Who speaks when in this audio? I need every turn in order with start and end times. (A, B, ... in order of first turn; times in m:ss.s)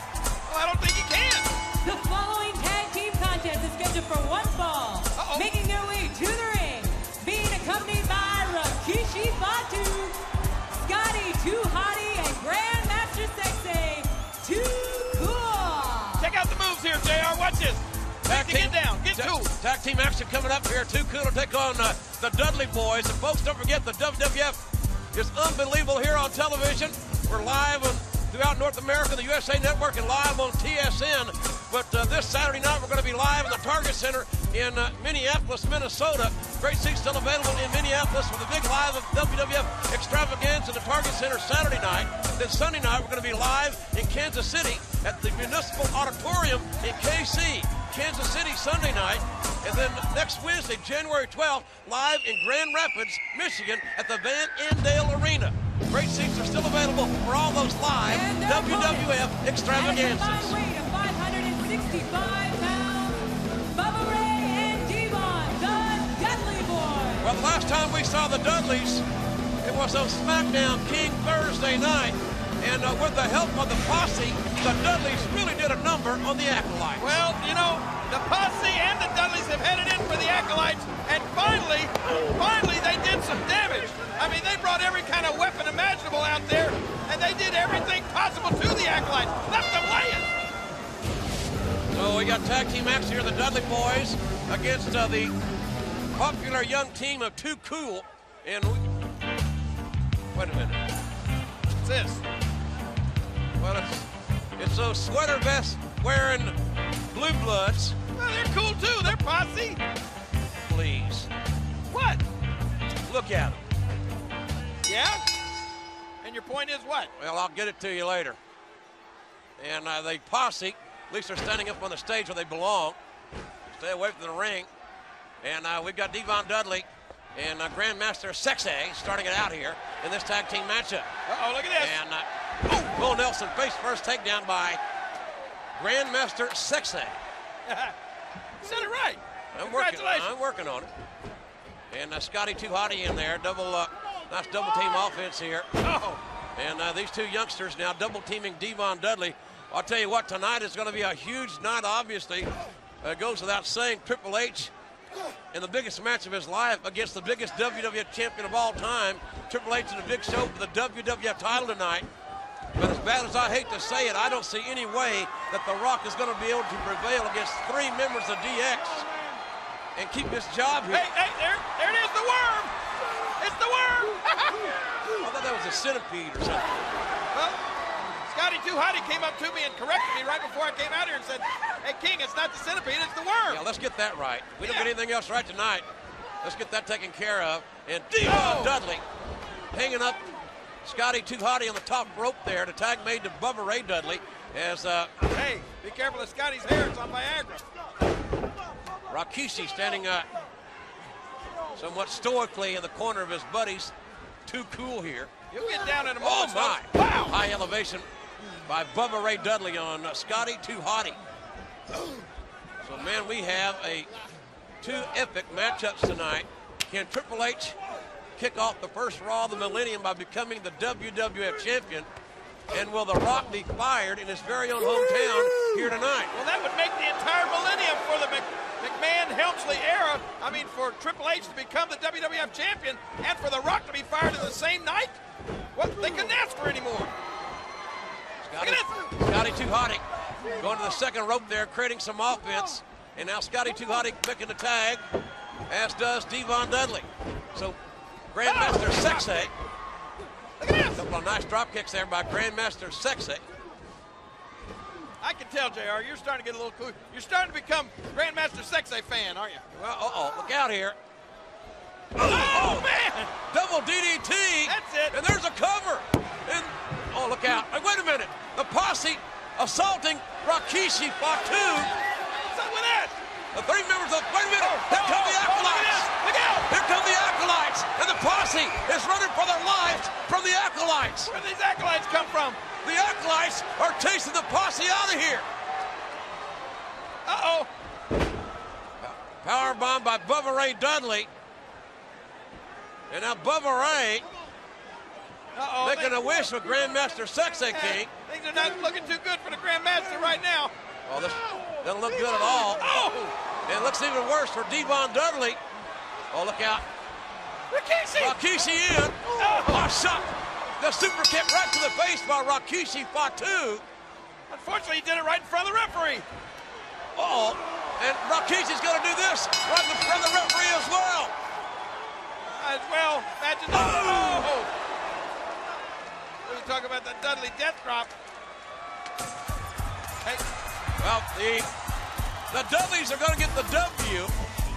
0:00.5-0:01.5 A
0:01.8-0:10.2 B
0:05.2-0:05.5 A
0:10.7-0:16.3 B
0:16.2-0:19.5 A
0:18.3-0:24.6 C
0:25.1-1:00.6 C
0:58.0-1:07.3 B
1:07.2-1:09.0 C
1:09.6-1:17.2 C
1:17.0-1:30.3 A
1:31.9-1:35.3 C
1:36.1-1:38.8 C
1:40.3-1:40.8 C
1:41.8-1:42.2 A
1:43.6-1:46.6 C
1:47.1-1:48.0 C
1:48.1-1:49.8 A
1:50.6-1:51.3 C
1:51.9-1:52.2 A
1:53.0-1:53.6 C
1:54.8-1:55.2 A
1:56.2-1:57.1 A
1:57.1-1:58.4 C
1:59.6-2:03.0 C
2:03.6-2:04.7 C
2:05.4-2:11.1 C
2:11.3-2:12.0 A
2:11.8-2:12.3 C
2:12.8-2:14.8 C
2:15.8-2:17.2 C
2:17.6-2:17.9 A
2:18.6-2:20.3 A
2:19.5-2:20.9 C
2:21.9-2:25.7 C
2:25.8-2:26.2 A
2:26.5-2:32.5 C
2:33.0-2:34.7 C
2:35.5-2:42.1 C
2:42.8-2:49.0 C
2:50.0-2:51.1 C
2:50.9-2:52.7 A
2:53.4-2:54.7 A
2:55.1-2:56.8 C
2:57.3-2:57.6 A
2:58.2-3:03.6 A
3:03.5-3:05.8 C
3:04.6-3:04.9 A
3:06.4-3:09.0 C
3:08.2-3:08.8 A
3:09.7-3:10.2 C
3:10.8-3:15.1 C
3:15.2-3:17.6 A
3:19.1-3:20.3 C
3:21.7-3:23.9 C
3:24.4-3:25.3 C
3:25.5-3:27.4 A
3:26.2-3:28.0 C
3:28.7-3:31.2 C
3:32.8-3:34.1 C
3:34.8-3:37.8 C
3:38.4-3:42.1 C
3:42.7-3:46.3 C
3:46.3-3:55.2 A
3:55.7-3:57.1 A
3:58.4-4:05.0 C
3:58.6-3:59.0 A
4:05.7-4:07.8 C
4:08.3-4:09.5 C
4:08.4-4:09.4 A
4:10.6-4:11.0 A
4:10.9-4:13.4 C
4:15.2-4:19.6 A
4:19.7-4:21.0 C
4:22.1-4:23.3 A
4:22.2-4:31.9 C
4:24.6-4:25.2 A
4:32.4-4:33.2 A
4:33.5-4:36.1 C
4:34.6-4:36.7 A
4:36.7-4:41.3 C
4:41.2-4:42.6 A
4:42.8-4:45.5 C
4:47.2-4:47.7 A
4:49.0-4:51.3 C
4:53.1-4:54.2 C
4:55.5-4:56.4 A
4:55.8-4:58.1 C
4:57.7-5:00.7 A
5:01.0-5:02.9 C
5:02.8-5:03.3 A
5:03.6-5:05.6 C
5:06.3-5:06.8 C
5:07.7-5:08.4 A
5:08.2-5:13.8 C
5:09.3-5:09.9 A
5:14.5-5:16.2 A
5:17.2-5:21.3 C
5:22.5-5:24.7 A
5:23.7-5:24.5 C
5:26.4-5:28.1 A
5:31.0-5:31.7 C
5:32.5-5:34.3 C